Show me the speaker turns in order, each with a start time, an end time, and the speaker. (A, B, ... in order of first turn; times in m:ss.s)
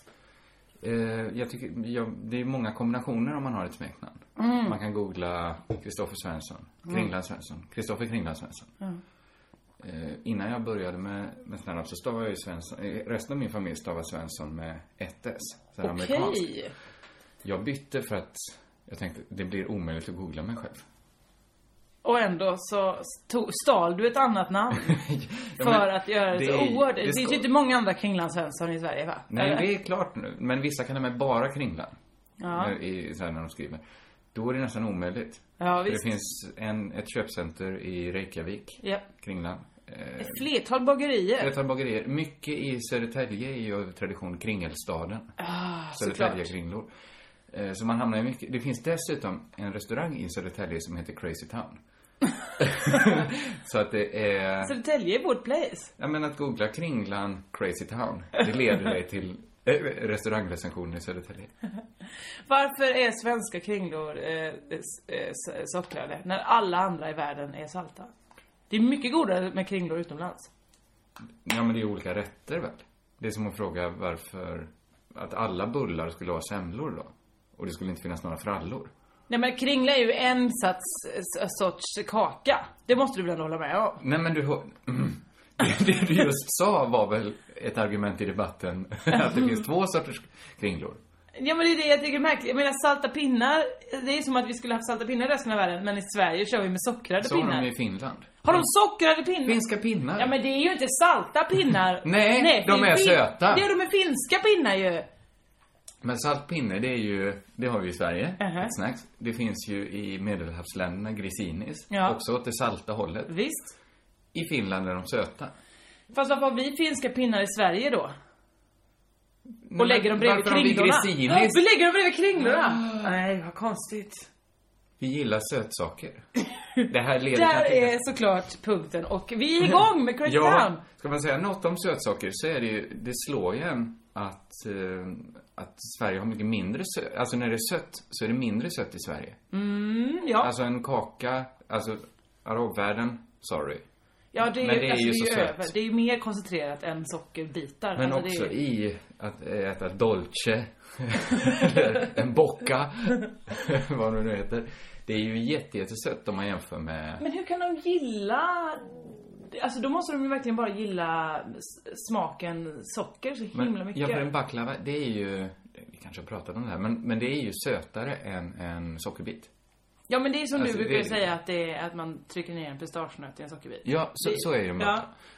0:00.8-0:08.7 A
0:04.4-0:04.8 B
0:09.8-0:16.5 A
0:15.8-0:16.7 B
0:17.4-0:20.8 A
0:22.0-0:25.0 B
0:24.9-0:27.4 A
0:25.6-0:29.7 B
0:29.3-0:32.0 A
0:32.4-0:32.8 B
0:32.5-0:33.8 A
0:34.3-0:40.4 A
0:35.6-0:36.1 B
0:40.2-0:41.5 B
0:41.4-0:45.3 A
0:45.4-0:46.5 B
0:46.0-0:46.9 A
0:47.5-0:51.8 A
0:52.6-0:54.8 A
0:54.6-0:55.9 B
0:56.0-1:01.5 A
1:02.5-1:08.1 B
1:08.7-1:10.5 B
1:11.4-1:18.9 A
1:19.3-1:24.0 B
1:24.0-1:31.0 A
1:31.4-1:37.7 B
1:37.2-1:38.7 A
1:38.4-1:39.6 B
1:39.4-1:40.3 A
1:40.2-1:45.1 B
1:42.0-1:43.6 A
1:46.0-1:53.3 A
1:48.4-1:48.7 B
1:51.9-1:52.2 B
1:53.3-1:53.8 B
1:54.3-1:55.5 A
1:56.1-1:58.1 B
1:59.6-2:01.6 A
1:59.8-2:04.3 B
2:02.4-2:03.1 A
2:05.0-2:06.2 A
2:06.8-2:08.0 A
2:07.3-2:10.8 B
2:09.7-2:19.4 A
2:19.5-2:20.5 B
2:20.4-2:23.8 A
2:24.3-2:28.5 B
2:24.4-2:25.7 A
2:28.0-2:37.2 A
2:37.2-2:44.3 B
2:43.5-2:49.5 A
2:50.1-2:55.1 B
2:50.6-2:51.2 A
2:53.8-2:55.1 A